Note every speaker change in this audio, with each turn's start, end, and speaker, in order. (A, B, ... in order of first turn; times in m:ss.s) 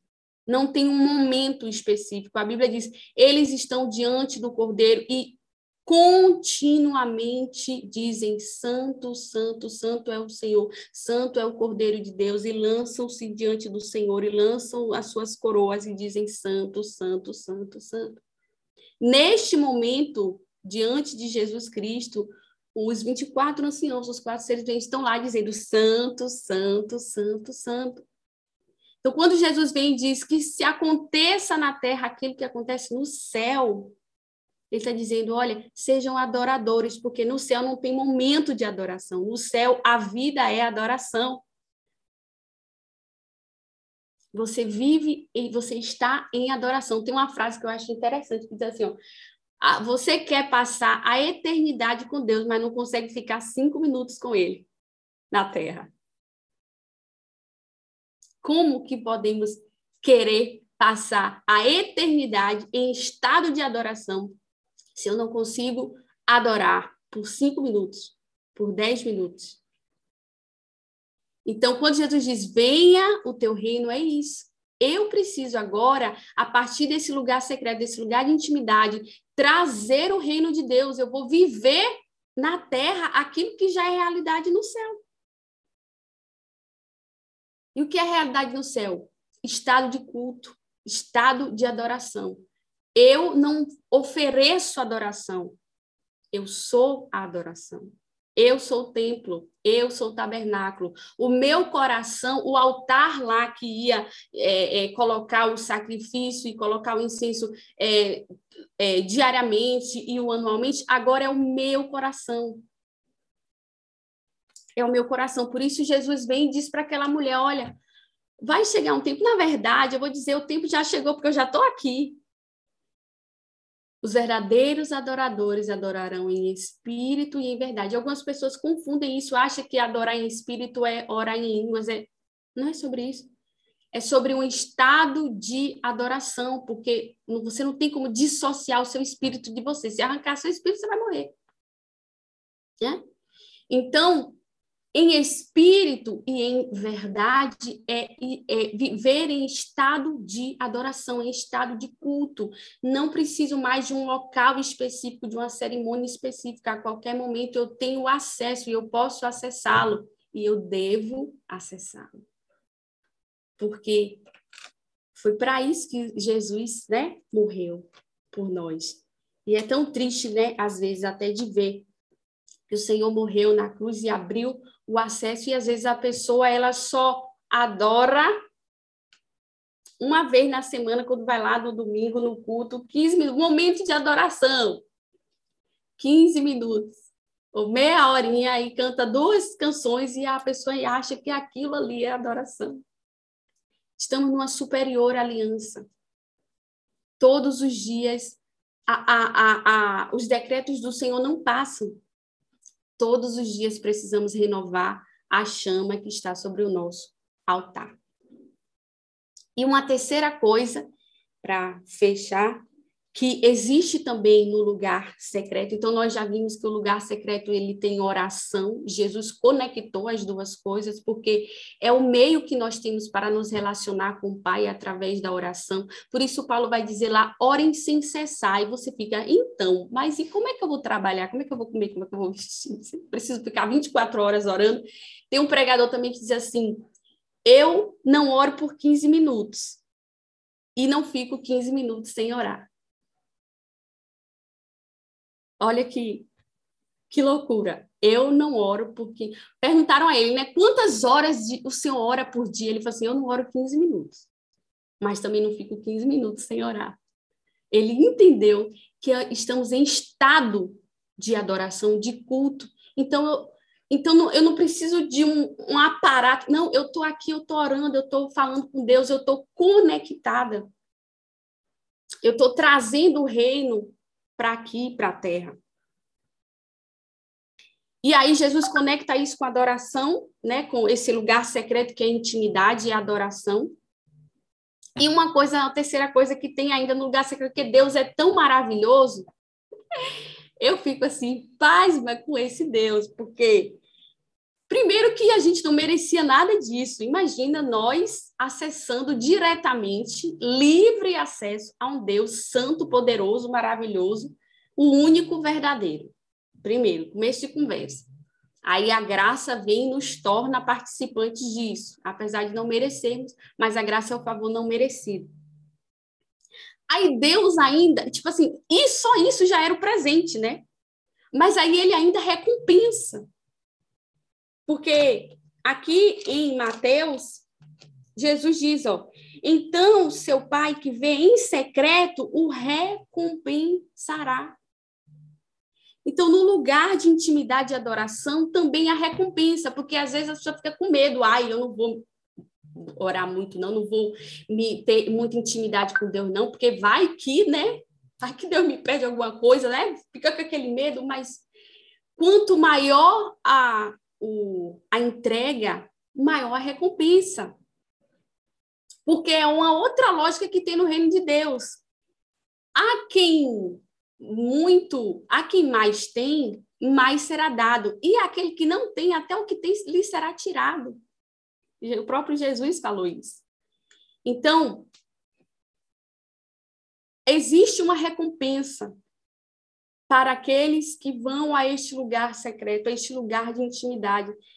0:00.5-0:18.2 A
0:19.0-0:28.0 A
0:29.0-0:33.9 A
0:34.7-0:41.4 A
0:44.3-0:49.0 A
0:49.6-0:54.7 A
0:55.3-0:55.9 A
0:58.4-1:04.4 A
1:05.0-1:09.6 A
1:11.4-1:25.0 A
1:27.7-1:32.4 A
1:32.9-1:35.6 A
1:36.3-1:37.8 A
1:38.4-1:48.3 A
1:48.8-1:52.6 A
1:54.8-1:57.8 A
1:58.4-2:02.2 A
2:04.0-2:13.3 A
2:13.9-2:21.3 A
2:23.7-2:24.4 A
2:24.9-2:42.2 A
2:43.6-2:44.2 A
2:45.1-2:51.8 A
2:52.7-2:58.3 A
3:00.0-3:04.8 A
3:06.0-3:12.8 A
3:14.0-3:15.8 A
3:17.2-3:22.0 A
3:23.0-3:27.9 A
3:29.6-3:30.9 A
3:31.4-3:32.6 A
3:33.1-3:56.8 A
3:57.4-3:59.8 A
4:00.8-4:02.7 A
4:05.6-4:06.3 A
4:07.1-4:14.3 A
4:15.0-4:17.0 A
4:17.7-4:30.7 A
4:32.2-4:35.6 A
4:38.0-4:43.7 A
4:45.0-4:49.3 A
4:50.6-4:53.8 A
4:54.7-5:08.0 A
5:08.6-5:15.3 A
5:16.9-5:20.6 A
5:21.3-5:23.2 A
5:24.7-5:27.4 A
5:28.2-5:34.6 A
5:36.0-5:42.0 A
5:42.8-5:51.4 A
5:52.2-5:57.5 A
5:59.0-6:01.8 A
6:02.8-6:11.0 A
6:11.8-6:13.4 A
6:14.2-6:14.9 A
6:17.3-6:19.0 A
6:20.1-6:24.4 A